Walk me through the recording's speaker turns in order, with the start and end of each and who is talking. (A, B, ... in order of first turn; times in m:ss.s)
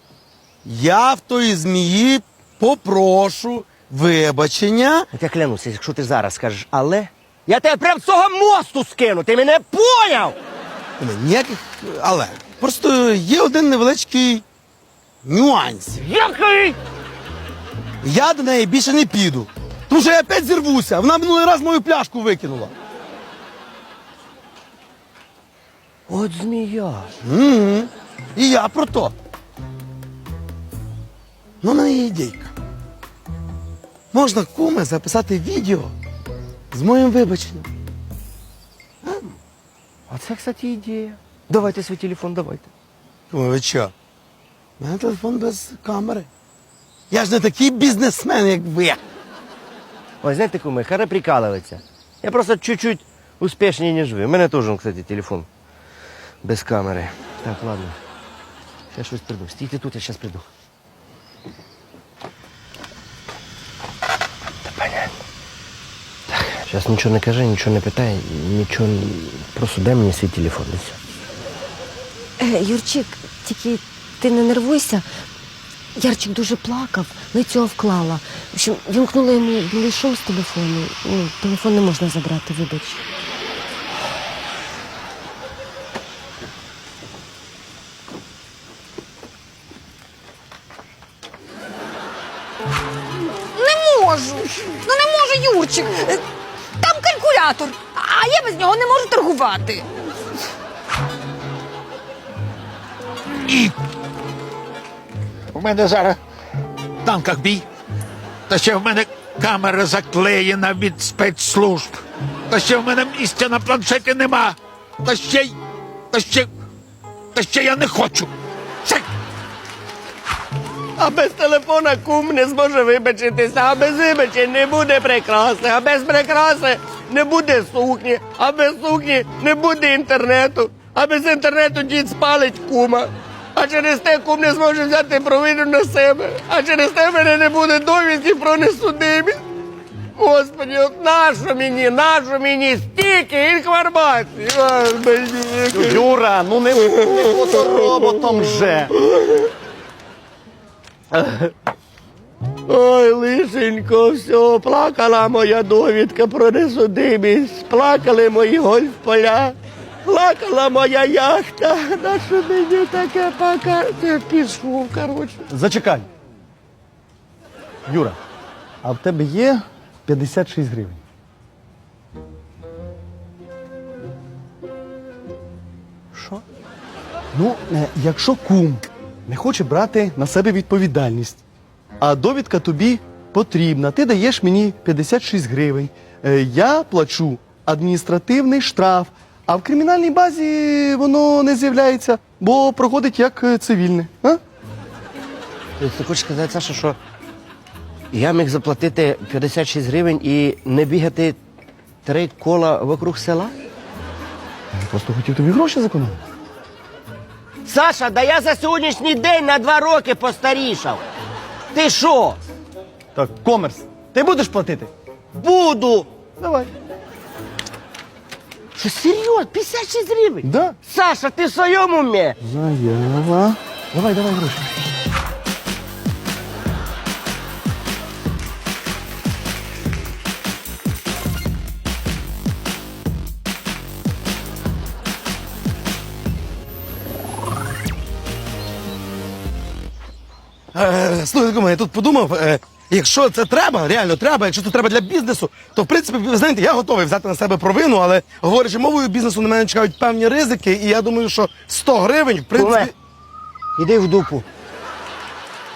0:00.6-0:05.1 A
0:05.1-0:10.4 B
0:11.0-0:14.4 A
0:15.2-0:16.0 A
0:16.0-0:16.8 B
0:18.0-0:22.7 A
0:26.1-0:27.1 B
0:27.2-0:29.1 A
0:31.6-0:32.5 A
0:34.1-0:35.9 A
0:36.7-0:37.7 A
0:39.0-0:39.3 A
0:40.1-0:42.7 B
0:43.3-0:43.9 A
0:44.8-0:46.3 A
0:47.1-0:49.0 A
0:50.2-0:55.5 B
0:56.4-0:58.0 B
0:58.9-1:00.5 B
1:04.6-1:05.2 B
1:06.3-1:11.0 B
1:12.4-1:15.1 C
1:16.0-1:23.0 C
1:33.5-1:36.2 D
1:36.8-1:39.8 D
1:43.4-1:43.7 E
1:45.5-1:46.2 E
1:47.0-1:47.6 E
1:48.5-1:55.5 E
1:56.1-1:56.5 E
1:57.3-1:58.3 E
2:01.0-2:19.4 B
2:20.2-2:26.1 B
2:25.7-2:28.9 F
2:26.8-2:28.4 B
2:29.1-2:29.5 B
2:31.1-2:31.5 B
2:32.7-2:45.5 B
2:45.5-2:46.0 F
2:47.9-2:48.2 F
2:48.8-2:51.0 F
2:56.1-2:56.4 B
2:57.3-3:01.4 F
3:02.0-3:14.4 F
3:15.8-3:17.0 B
3:18.1-3:21.4 B
3:22.0-3:23.5 B
3:24.7-3:26.2 F
3:27.6-3:31.0 B
3:31.7-3:32.4 B
3:33.1-3:34.9 F
3:35.3-3:36.1 B
3:36.4-3:36.7 F
3:38.7-3:42.4 B
3:40.4-3:40.8 F
3:42.4-3:44.8 F
4:00.7-4:12.9 A
4:12.6-4:12.9 B
4:13.8-4:14.4 B